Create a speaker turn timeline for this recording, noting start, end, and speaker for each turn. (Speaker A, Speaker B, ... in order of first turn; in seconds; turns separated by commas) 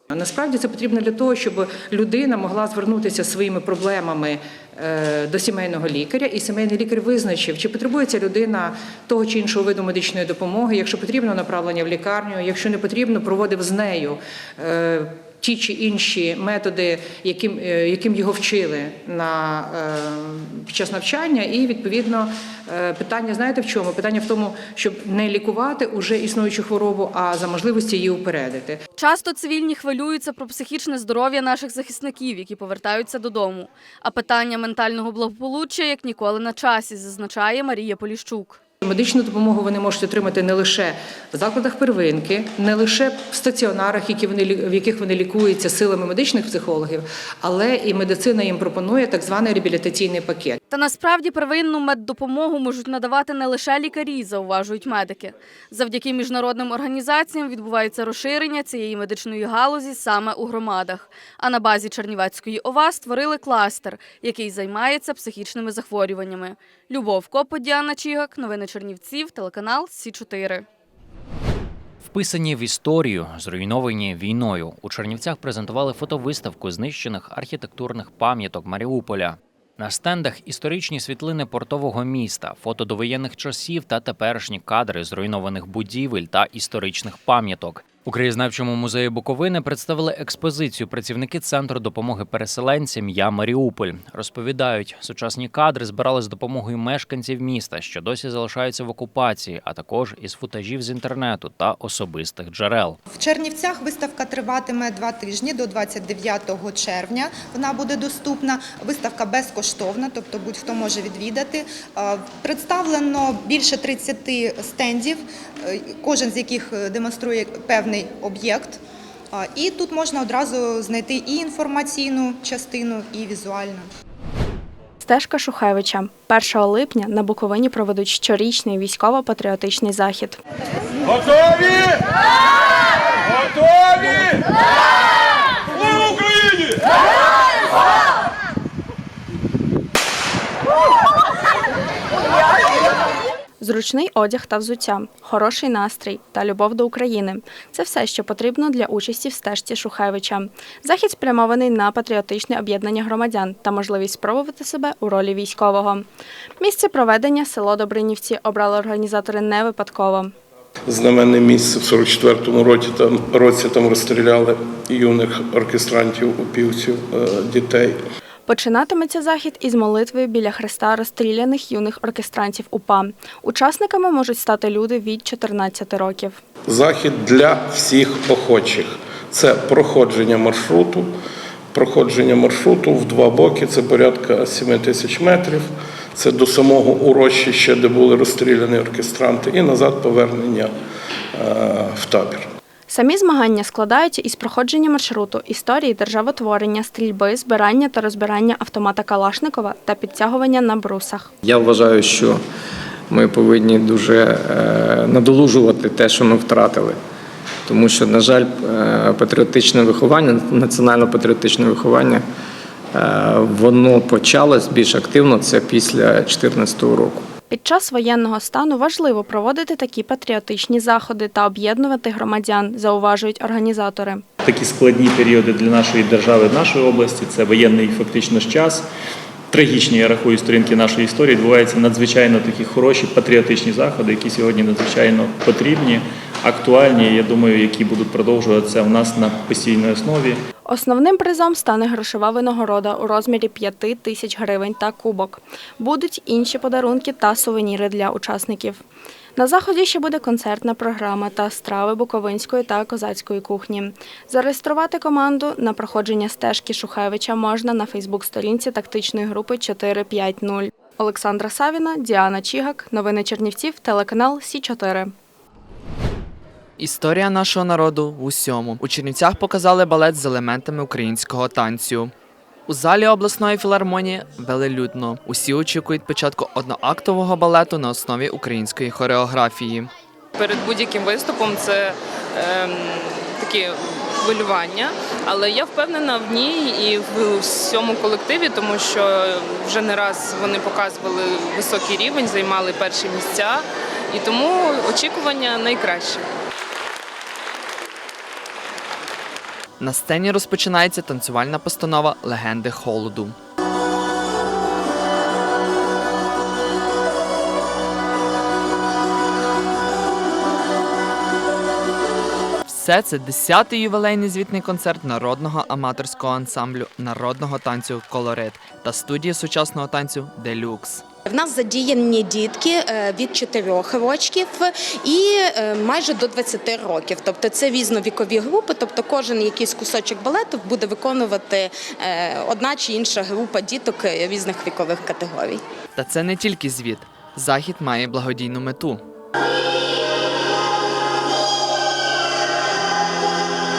Speaker A: 0.1-28.8, Speaker B: 29.0-38.6, Speaker A: 38.8-50.6, Speaker B: 50.7-70.7, Speaker C: 72.0-103.0, Speaker D: 103.2-118.8, Speaker D: 119.3-123.9, Speaker E: 125.0-130.4, Speaker E: 143.6-156.1, Speaker E: 156.6-160.3, Speaker F: 160.9-167.9, Speaker E: 168.5-176.4, Speaker F: 176.7-181.1, Speaker F: 181.7-190.7, Speaker F: 191.4-192.4, Speaker E: 192.9-201.3, Speaker G: 201.4-202.4, Speaker G: 203.1-207.0, Speaker G: 207.7-212.3, Speaker G: 212.9-217.2, Speaker E: 217.5-224.2, Speaker H: 224.4-228.9, Speaker H: 229.5-240.4, Speaker E: 240.7-248.8, Speaker E: 249.4-265.1, Speaker I: 266.8-272.1, Speaker I: 272.7-279.9, Speaker J: 280.4-296.2, Speaker I: 299.8-303.3, Speaker I: 312.7-321.0, Speaker K: 321.3-335.6, Speaker I: 336.0-339.0